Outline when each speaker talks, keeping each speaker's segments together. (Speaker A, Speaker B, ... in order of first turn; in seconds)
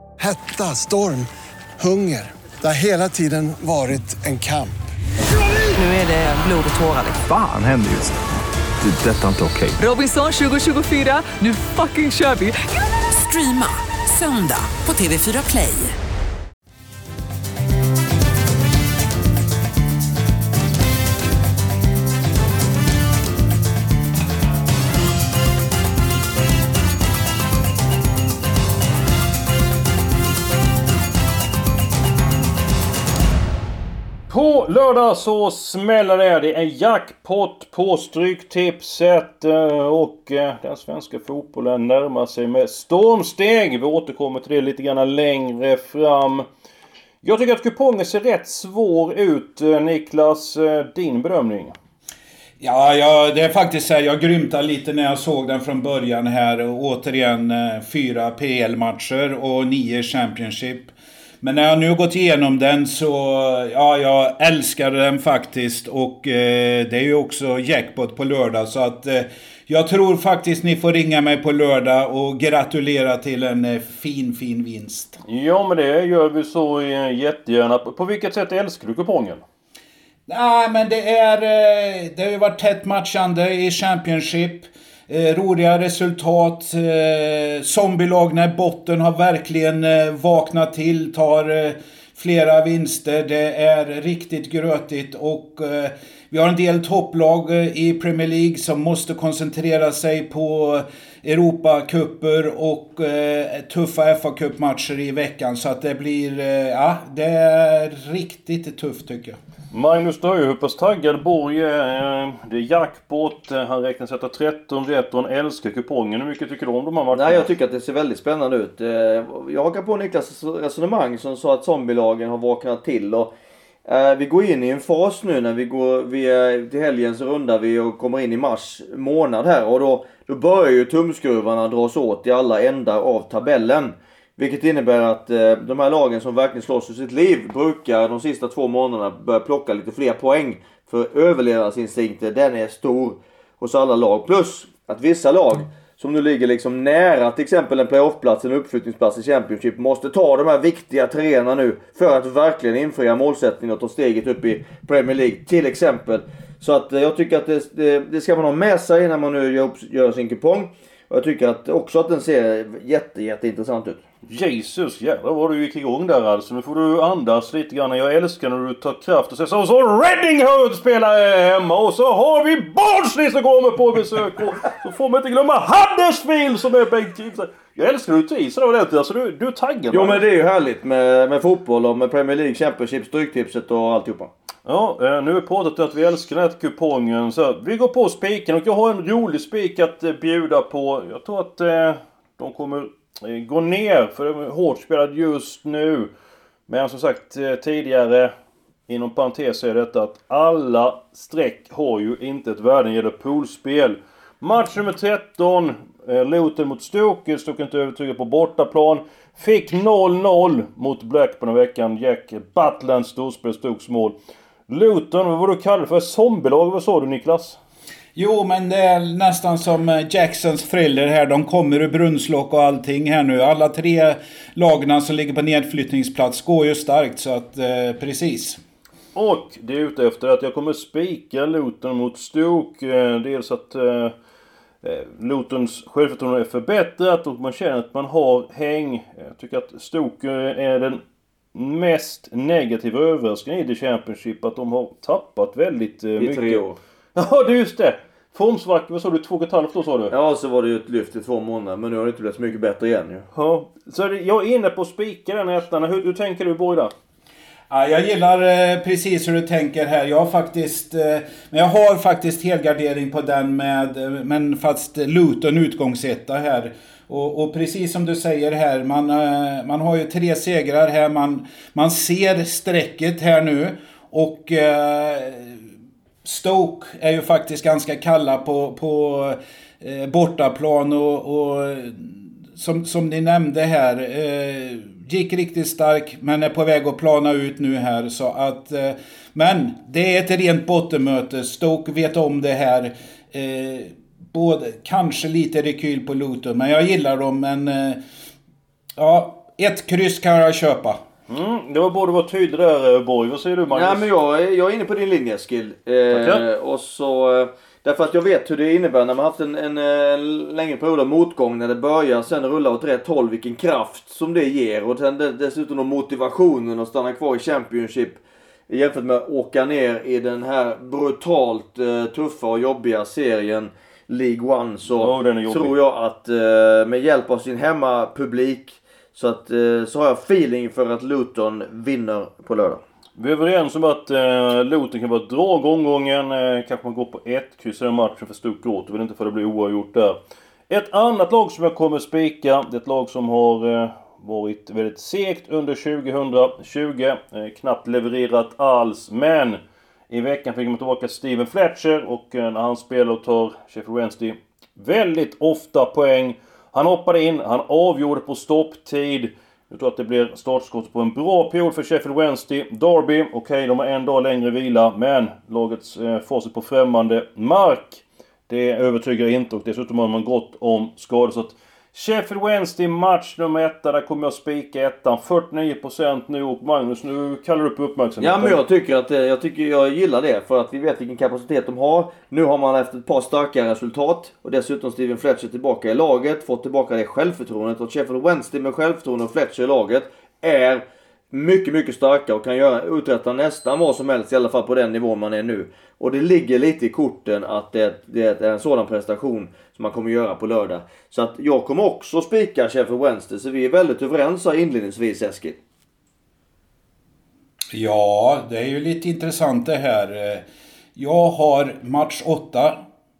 Speaker A: 0.2-1.3, 1.8-4.8
Speaker B: 5.7-7.2, 9.8-15.9
Speaker C: 7.2-8.2, 8.8-9.8
Speaker D: 34.3-46.5, 47.2-51.7, 75.3-79.4, 109.7-117.5, 164.3-180.2, 184.7-196.1, 196.7-198.3, 198.9-214.2, 214.7-217.6, 229.1-234.1, 234.8-241.0, 241.5-246.6, 247.1-250.1, 253.3-256.9, 301.3-304.1, 306.1-306.4, 325.0-325.7, 333.2-340.2, 340.7-378.6
Speaker E: 52.6-75.2, 80.3-109.4, 218.1-228.6, 257.7-275.6, 276.2-298.0, 299.0-301.0, 407.7-410.4, 410.9-412.8
Speaker F: 117.1-123.3, 123.9-164.0, 179.9-184.3, 246.2-246.8, 250.1-253.3, 303.7-332.8, 378.2-405.6